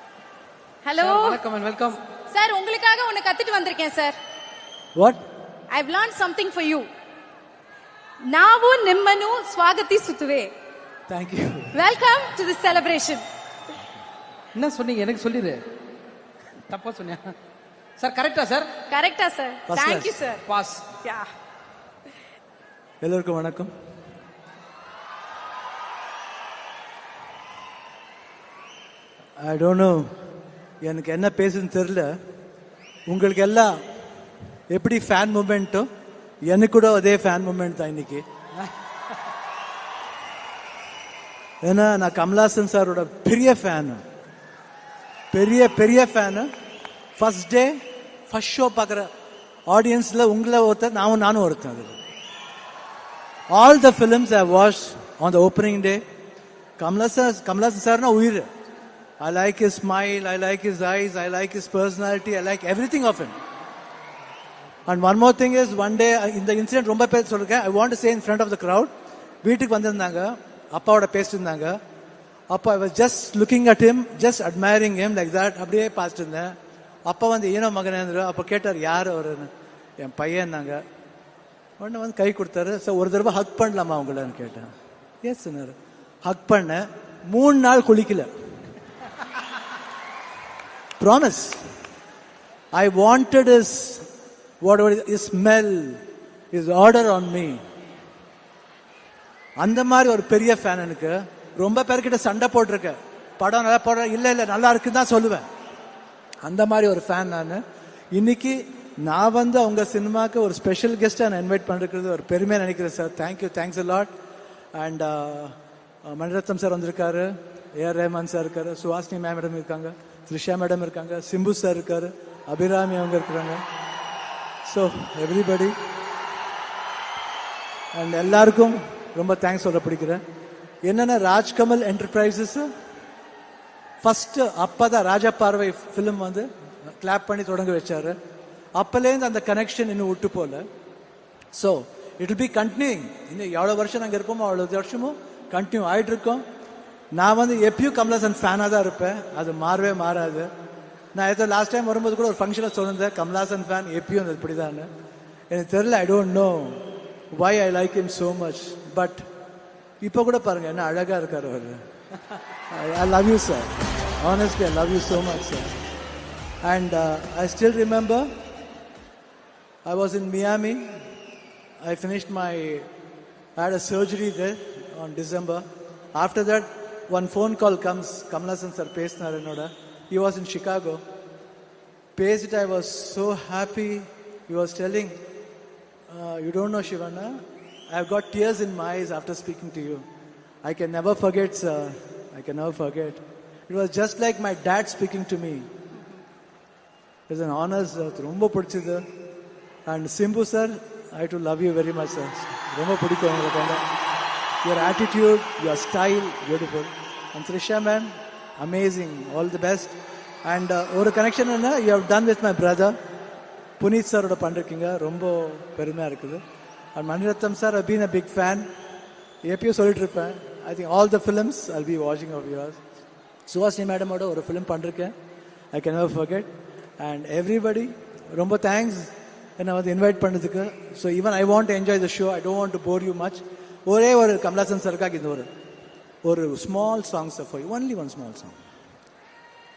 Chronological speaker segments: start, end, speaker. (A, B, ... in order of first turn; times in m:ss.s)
0:00.8-0:01.4 A
0:01.0-0:02.0 B
0:02.3-0:04.2 A
0:05.7-0:06.9 A
0:08.3-0:10.5 A
0:11.1-0:11.8 C
0:11.7-0:13.2 A
0:14.6-0:15.6 B
0:16.7-0:17.3 B
0:18.0-0:18.7 B
0:18.9-0:20.4 A
0:19.7-0:20.2 C
0:20.5-0:20.9 B
0:21.0-0:21.3 A
0:23.0-0:23.7 C
0:29.4-0:30.1 C
0:30.8-0:32.1 C
0:33.1-0:33.7 C
0:34.7-0:35.9 C
0:36.5-0:38.2 C
0:41.6-0:44.0 C
0:45.3-0:46.5 C
0:47.2-0:47.8 C
0:48.3-0:49.1 C
0:49.7-0:52.0 C
0:53.5-0:56.0 C
0:56.8-0:58.5 C
0:59.2-1:03.4 C
1:04.9-1:08.9 C
1:09.4-1:11.8 C
1:12.5-1:16.5 C
1:17.1-1:20.8 C
1:21.8-1:24.7 C
1:25.2-1:28.3 C
1:31.0-1:31.6 C
1:32.7-1:34.1 C
1:34.6-1:36.0 C
1:36.5-1:37.6 C
1:39.6-1:45.5 C
1:46.4-1:54.1 C
1:54.7-2:03.6 C
2:04.7-2:05.7 C
2:07.9-2:10.2 C
2:10.9-2:12.7 C
2:14.0-2:18.2 C
2:18.8-2:20.6 C
2:21.5-2:26.4 C
2:27.1-2:30.5 C
2:31.1-2:34.9 C
2:35.5-2:39.2 C
2:40.0-2:41.8 C
2:42.7-2:45.7 C
2:46.6-2:48.3 C
2:49.8-2:51.0 C
2:51.8-2:52.9 C
2:53.6-3:01.0 C
3:02.2-3:05.2 C
3:06.1-3:10.0 C
3:10.6-3:15.7 C
3:17.3-3:19.0 C
3:19.9-3:23.8 C
3:24.6-3:33.0 C
3:33.8-3:36.4 C
3:37.0-3:38.7 C
3:39.4-3:42.8 C
3:43.5-3:45.1 C
3:45.7-3:55.5 C
3:56.2-3:58.6 C